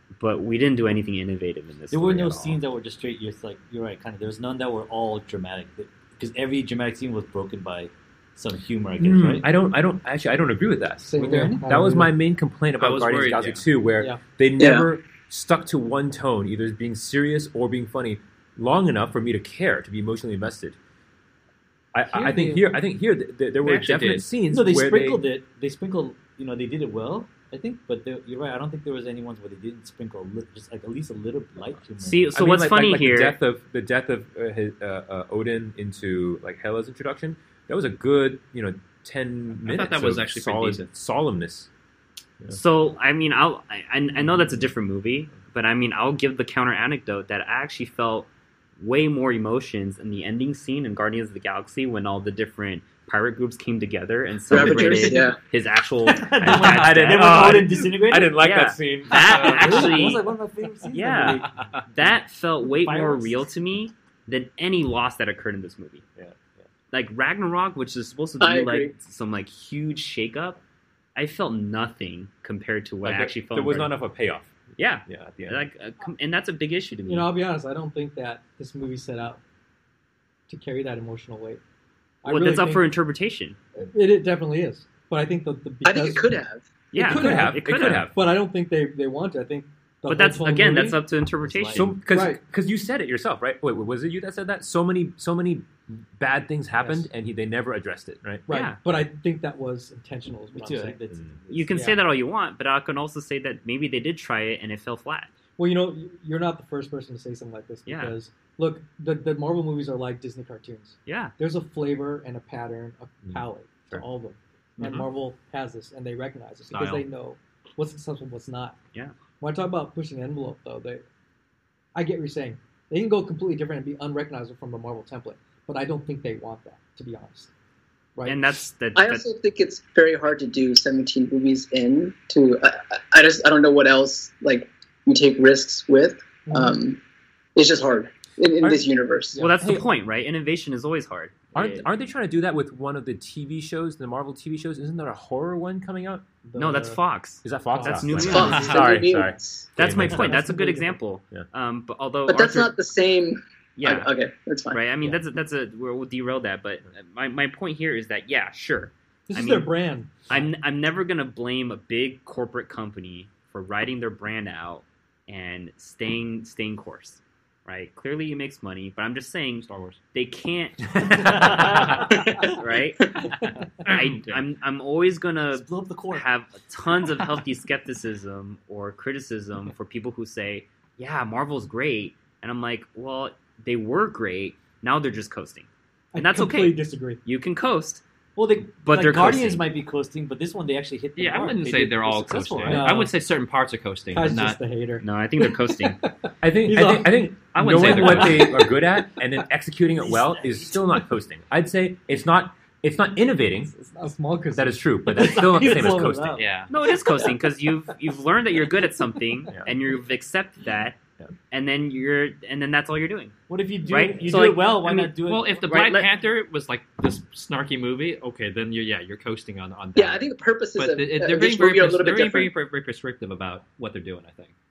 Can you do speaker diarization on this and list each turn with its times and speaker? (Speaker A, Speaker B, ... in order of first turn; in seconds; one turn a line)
Speaker A: 0.2-2.6
Speaker B: 1.9-9.5
Speaker C: 9.0-20.8
Speaker D: 11.0-12.1
Speaker E: 12.8-13.7
Speaker F: 14.6-14.9
Speaker C: 21.9-25.2
Speaker E: 22.1-22.7
Speaker E: 23.6-24.3
Speaker B: 24.5-32.3
Speaker A: 32.0-33.4
Speaker C: 32.3-41.7
Speaker E: 39.6-40.9
Speaker A: 42.5-57.7
Speaker F: 54.5-55.4
Speaker B: 54.6-55.2
Speaker B: 56.0-58.4
Speaker C: 56.5-59.8
Speaker A: 58.4-60.2
Speaker E: 59.2-59.9
Speaker B: 59.2-61.5
Speaker A: 60.9-66.0
Speaker B: 62.6-63.5
Speaker A: 66.9-70.6
Speaker F: 68.4-68.9
Speaker A: 71.2-73.9
Speaker C: 73.0-75.6
Speaker A: 74.8-77.3
Speaker D: 77.1-79.4
Speaker D: 80.5-81.6
Speaker D: 82.2-82.9
Speaker A: 82.3-83.6
Speaker D: 83.8-86.4
Speaker F: 85.8-86.7
Speaker A: 86.9-88.2
Speaker C: 87.0-88.1
Speaker D: 87.0-91.0
Speaker A: 90.1-92.1
Speaker B: 91.4-92.0
Speaker C: 91.7-98.5
Speaker D: 92.1-92.4
Speaker D: 96.8-97.1
Speaker D: 98.5-101.0
Speaker A: 98.5-98.8
Speaker B: 100.5-101.9
Speaker A: 101.5-105.3
Speaker D: 101.7-102.0
Speaker D: 105.6-118.8
Speaker A: 107.9-108.2
Speaker A: 111.1-111.4
Speaker E: 114.8-115.1
Speaker E: 116.7-117.0
Speaker D: 119.4-121.0
Speaker D: 122.0-127.5
Speaker D: 128.2-128.5
Speaker A: 128.2-129.3
Speaker F: 128.9-137.0
Speaker D: 136.5-136.8
Speaker F: 137.6-139.4
Speaker D: 139.3-139.6
Speaker A: 139.4-141.9
Speaker C: 139.6-139.9
Speaker C: 141.6-146.2
Speaker D: 146.4-147.0
Speaker A: 146.6-148.9
Speaker C: 147.4-150.5
Speaker D: 147.7-148.7
Speaker F: 148.2-149.7
Speaker A: 149.8-152.7
Speaker D: 150.0-151.0
Speaker F: 152.3-154.8
Speaker A: 153.8-154.1
Speaker A: 154.7-159.7
Speaker D: 159.3-160.4
Speaker A: 160.3-188.0
Speaker E: 169.6-170.0
Speaker C: 171.1-171.8
Speaker B: 171.2-172.0
Speaker E: 171.8-172.2
Speaker E: 173.3-174.4
Speaker B: 175.5-176.3
Speaker D: 186.1-187.2
Speaker B: 188.4-192.9
Speaker A: 188.8-189.7
Speaker E: 191.2-194.6
Speaker D: 192.7-193.1
Speaker D: 194.1-197.3
Speaker A: 195.0-196.0
Speaker C: 196.4-203.7
Speaker E: 197.5-198.7
Speaker D: 197.9-198.7
Speaker B: 199.9-200.9
Speaker D: 203.7-205.9
Speaker C: 204.6-206.5
Speaker B: 205.1-206.5
Speaker E: 206.3-206.7
Speaker A: 206.7-216.1
Speaker B: 213.5-215.7
Speaker E: 215.2-224.5
Speaker F: 220.0-222.5